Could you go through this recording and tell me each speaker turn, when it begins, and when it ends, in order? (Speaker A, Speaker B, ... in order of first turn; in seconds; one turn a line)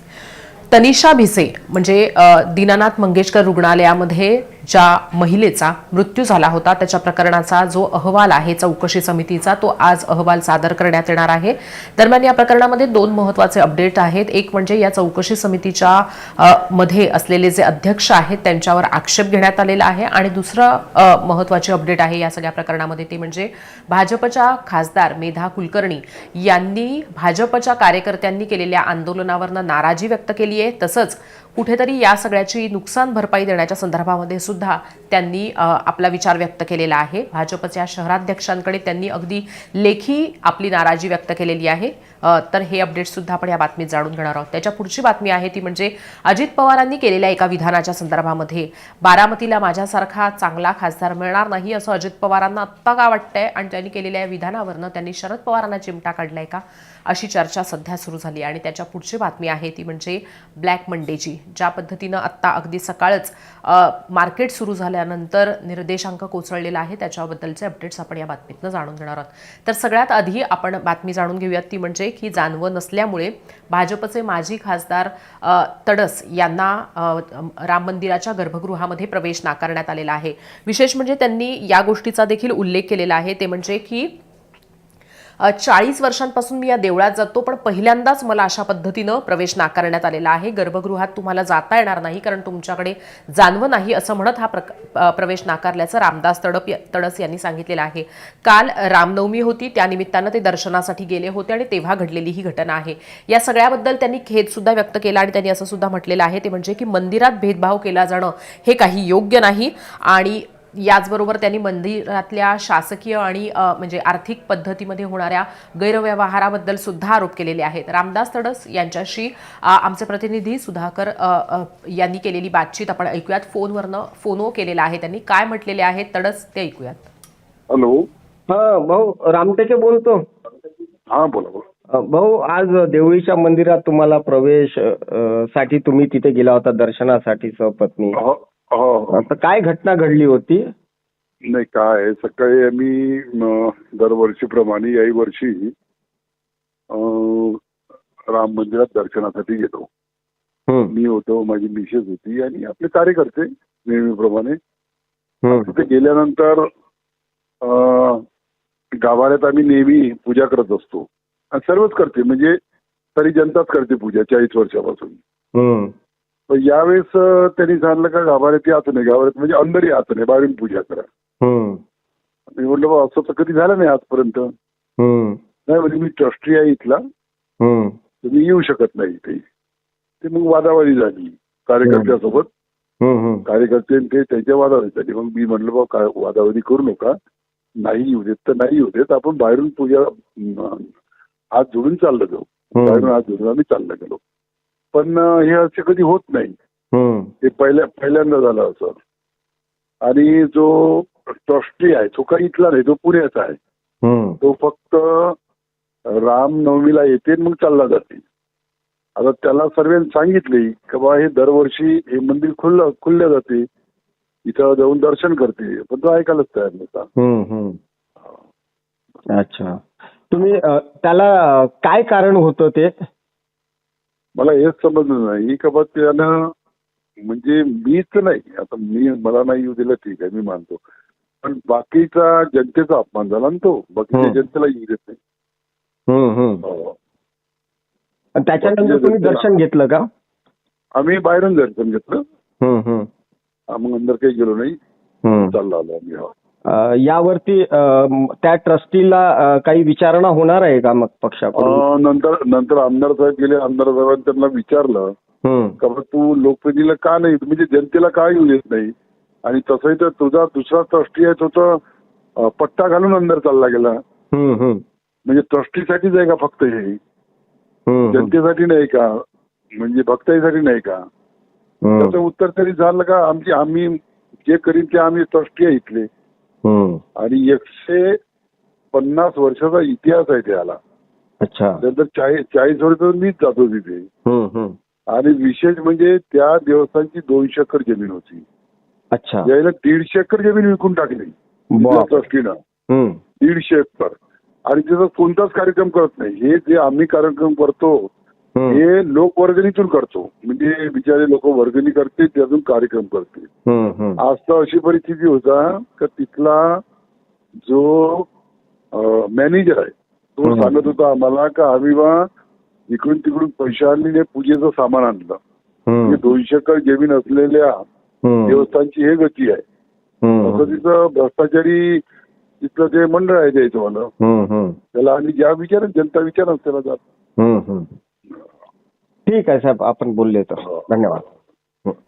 Speaker A: 0.7-84.2
Speaker A: 85.4-127.1
Speaker B: 127.7-128.1
Speaker C: 128.5-130.3
Speaker B: 131.1-131.6
Speaker C: 131.9-138.2
Speaker B: 138.2-139.3
Speaker C: 139.1-140.7
Speaker B: 141.5-145.7
Speaker B: 146.9-147.6
Speaker B: 148.3-149.9
Speaker B: 150.9-154.6
Speaker C: 155.4-155.7
Speaker B: 155.5-156.7
Speaker B: 157.6-158.2
Speaker B: 159.0-162.6
Speaker B: 163.2-165.2
Speaker C: 165.6-165.9
Speaker B: 166.5-171.1
Speaker C: 171.4-171.8
Speaker B: 172.6-174.5
Speaker C: 175.0-175.4
Speaker B: 175.7-177.0
Speaker C: 177.6-178.0
Speaker B: 178.2-179.4
Speaker B: 180.2-182.5
Speaker C: 181.8-182.2
Speaker C: 183.0-183.4
Speaker B: 183.5-187.2
Speaker B: 187.8-190.9
Speaker B: 191.5-194.2
Speaker C: 192.8-193.1
Speaker B: 194.9-196.6
Speaker C: 196.9-197.3
Speaker B: 197.4-199.0
Speaker B: 200.0-203.6
Speaker C: 204.0-204.4
Speaker B: 204.4-205.4
Speaker B: 206.1-208.2
Speaker B: 209.2-213.7
Speaker B: 214.4-217.1
Speaker C: 217.2-217.8
Speaker C: 219.3-222.9
Speaker B: 224.4-226.5
Speaker B: 227.2-230.8
Speaker B: 231.4-235.2
Speaker C: 234.1-234.4
Speaker C: 236.1-236.6
Speaker B: 236.6-236.9
Speaker C: 238.4-240.1
Speaker B: 238.6-239.4
Speaker B: 240.9-242.2
Speaker C: 242.6-243.1
Speaker B: 243.7-244.8
Speaker C: 245.2-245.6
Speaker B: 245.4-246.3
Speaker C: 246.7-251.8
Speaker B: 251.6-255.1
Speaker C: 255.4-255.8
Speaker B: 255.8-261.8
Speaker B: 262.4-264.0
Speaker C: 264.3-264.8
Speaker B: 265.3-267.0
Speaker C: 267.9-268.3
Speaker B: 268.1-269.2
Speaker B: 269.8-271.1
Speaker C: 271.8-272.2
Speaker B: 272.0-276.1
Speaker C: 276.6-277.0
Speaker B: 277.2-278.2
Speaker B: 278.9-280.8
Speaker C: 281.4-281.8
Speaker B: 281.8-284.1
Speaker C: 284.3-284.8
Speaker B: 285.1-288.4
Speaker C: 289.1-289.5
Speaker B: 289.4-292.6
Speaker C: 291.8-292.2
Speaker C: 292.9-293.2
Speaker B: 293.4-298.1
Speaker C: 298.6-298.8
Speaker B: 298.7-303.5
Speaker C: 303.7-304.2
Speaker B: 304.2-306.8
Speaker B: 307.6-308.3
Speaker B: 308.9-312.3
Speaker C: 310.4-310.7
Speaker B: 312.9-315.4
Speaker C: 315.9-316.2
Speaker B: 316.0-317.8
Speaker C: 318.2-318.6
Speaker B: 318.5-319.6
Speaker C: 320.2-320.7
Speaker B: 320.4-322.0
Speaker B: 322.6-324.1
Speaker C: 324.2-324.8
Speaker B: 324.9-327.0
Speaker C: 327.4-327.9
Speaker C: 329.3-331.2